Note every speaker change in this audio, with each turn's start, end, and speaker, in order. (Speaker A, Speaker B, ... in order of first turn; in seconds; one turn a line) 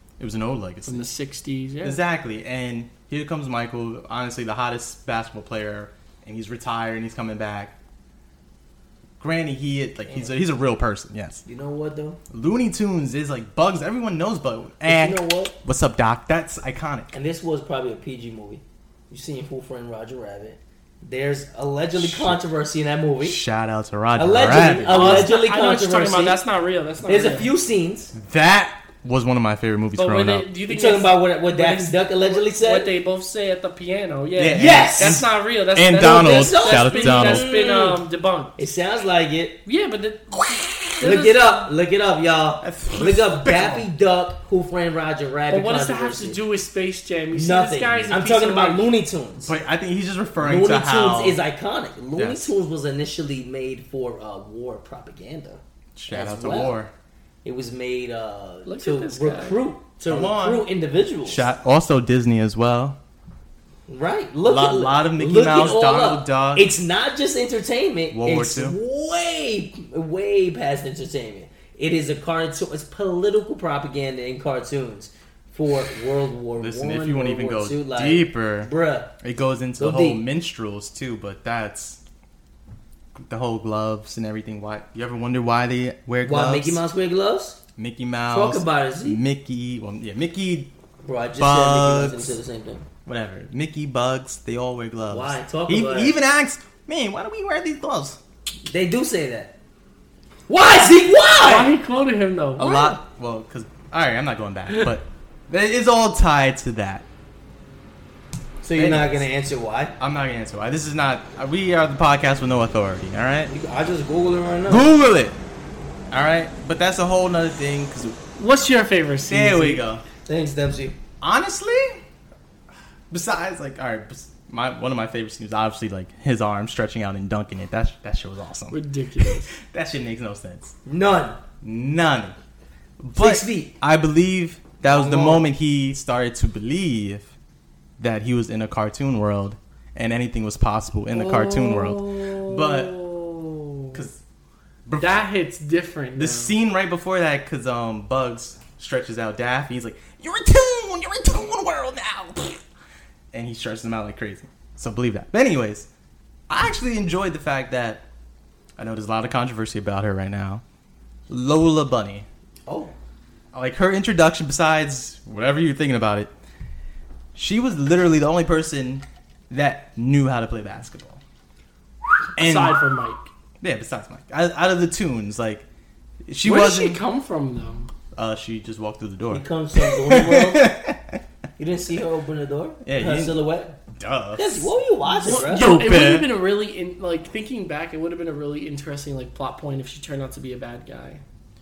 Speaker A: 0.2-1.1
Speaker B: 0.8-2.0
Speaker A: 1.8-7.7
Speaker A: 9.2-11.4
Speaker C: 10.1-10.3
Speaker C: 11.4-12.2
Speaker A: 12.3-17.1
Speaker C: 14.8-15.5
Speaker C: 17.1-23.4
Speaker A: 21.9-22.4
Speaker A: 23.2-25.3
Speaker C: 24.1-26.4
Speaker B: 24.9-27.5
Speaker C: 27.1-28.1
Speaker A: 28.1-30.5
Speaker B: 29.9-38.6
Speaker C: 30.7-32.9
Speaker A: 34.4-37.5
Speaker C: 34.5-35.2
Speaker C: 36.0-38.0
Speaker C: 38.6-39.6
Speaker B: 39.6-41.7
Speaker C: 41.0-46.4
Speaker A: 42.6-43.9
Speaker B: 45.5-48.9
Speaker C: 47.3-49.5
Speaker A: 49.4-51.4
Speaker C: 50.4-56.8
Speaker A: 52.1-52.5
Speaker A: 56.0-56.9
Speaker C: 57.4-61.4
Speaker B: 58.6-59.6
Speaker A: 60.1-60.6
Speaker A: 61.2-63.0
Speaker C: 63.9-79.1
Speaker A: 64.4-66.7
Speaker A: 68.1-68.8
Speaker A: 76.6-82.0
Speaker C: 79.8-80.2
Speaker A: 83.2-86.8
Speaker C: 86.2-87.6
Speaker A: 87.8-90.7
Speaker C: 88.3-89.2
Speaker C: 91.0-92.8
Speaker A: 91.4-92.3
Speaker A: 93.0-98.2
Speaker C: 95.1-96.1
Speaker C: 98.7-99.5
Speaker C: 100.5-101.7
Speaker B: 101.4-103.0
Speaker A: 102.6-107.0
Speaker C: 108.6-109.9
Speaker A: 108.7-109.2
Speaker A: 110.0-113.5
Speaker C: 113.5-114.9
Speaker A: 114.7-115.3
Speaker A: 116.1-118.2
Speaker B: 118.4-119.8
Speaker A: 119.3-120.0
Speaker C: 120.2-121.0
Speaker A: 121.2-122.0
Speaker A: 123.1-130.7
Speaker B: 128.7-129.5
Speaker C: 130.8-131.4
Speaker A: 131.6-132.3
Speaker A: 133.0-137.3
Speaker C: 133.2-133.7
Speaker C: 134.8-135.5
Speaker A: 138.0-143.0
Speaker B: 141.1-144.0
Speaker A: 143.9-144.2
Speaker A: 144.8-145.2
Speaker B: 145.0-146.6
Speaker A: 146.2-152.6
Speaker A: 153.3-155.9
Speaker A: 156.5-158.0
Speaker A: 158.8-160.6
Speaker A: 161.3-162.3
Speaker C: 162.7-162.9
Speaker A: 163.5-166.3
Speaker A: 167.3-171.2
Speaker A: 172.3-172.8
Speaker B: 172.4-173.2
Speaker A: 173.6-175.6
Speaker A: 176.2-177.0
Speaker B: 176.4-177.9
Speaker A: 178.1-181.2
Speaker C: 179.3-180.7
Speaker C: 181.6-183.7
Speaker A: 182.8-183.4
Speaker A: 183.9-184.7
Speaker C: 184.3-185.8
Speaker A: 185.2-186.3
Speaker B: 185.2-191.2